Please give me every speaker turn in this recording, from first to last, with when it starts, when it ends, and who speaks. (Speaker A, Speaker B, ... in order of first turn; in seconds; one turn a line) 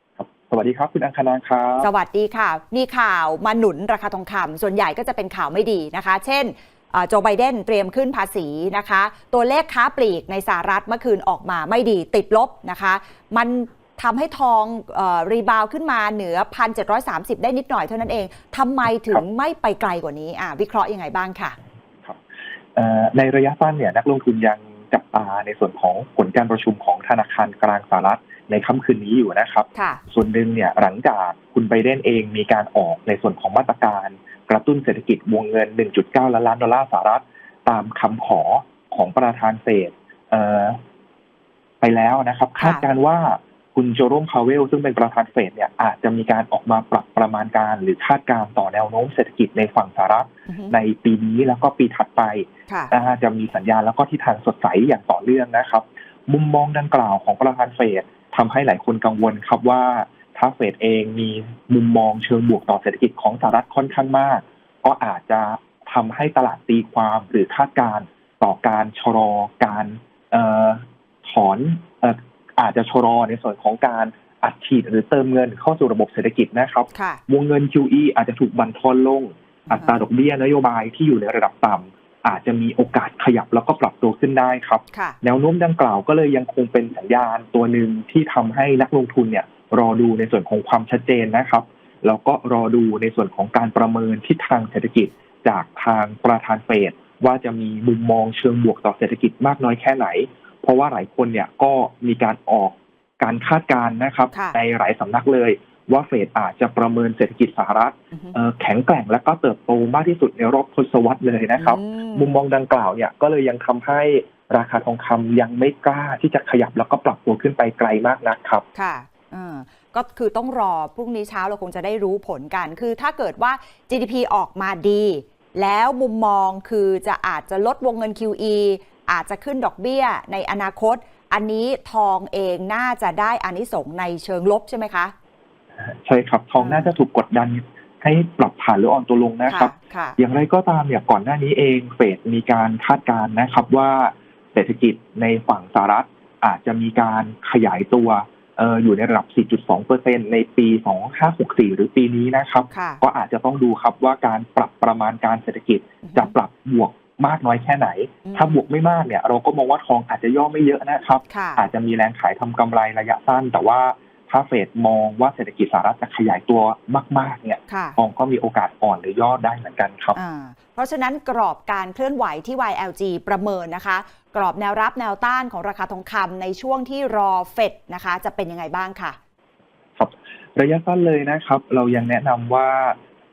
Speaker A: 0.2-1.9
Speaker B: 1.8-21.6
Speaker A: 22.8-40.8
Speaker B: 29.8-30.0
Speaker A: 41.8-118.7
Speaker B: 42.6-42.9
Speaker B: 50.5-50.8
Speaker B: 76.9-77.2
Speaker B: 79.7-80.0
Speaker B: 84.9-85.2
Speaker B: 104.3-104.6
Speaker B: 111.6-112.4
Speaker B: 118.8-135.1
Speaker A: 135.8-170.2
Speaker B: 136.6-136.9
Speaker B: 139.5-140.2
Speaker B: 152.7-153.0
Speaker B: 156.0-156.3
Speaker B: 158.3-158.7
Speaker B: 161.3-161.6
Speaker B: 167.7-168.0
Speaker B: 170.2-179.2
Speaker A: 180.0-183.0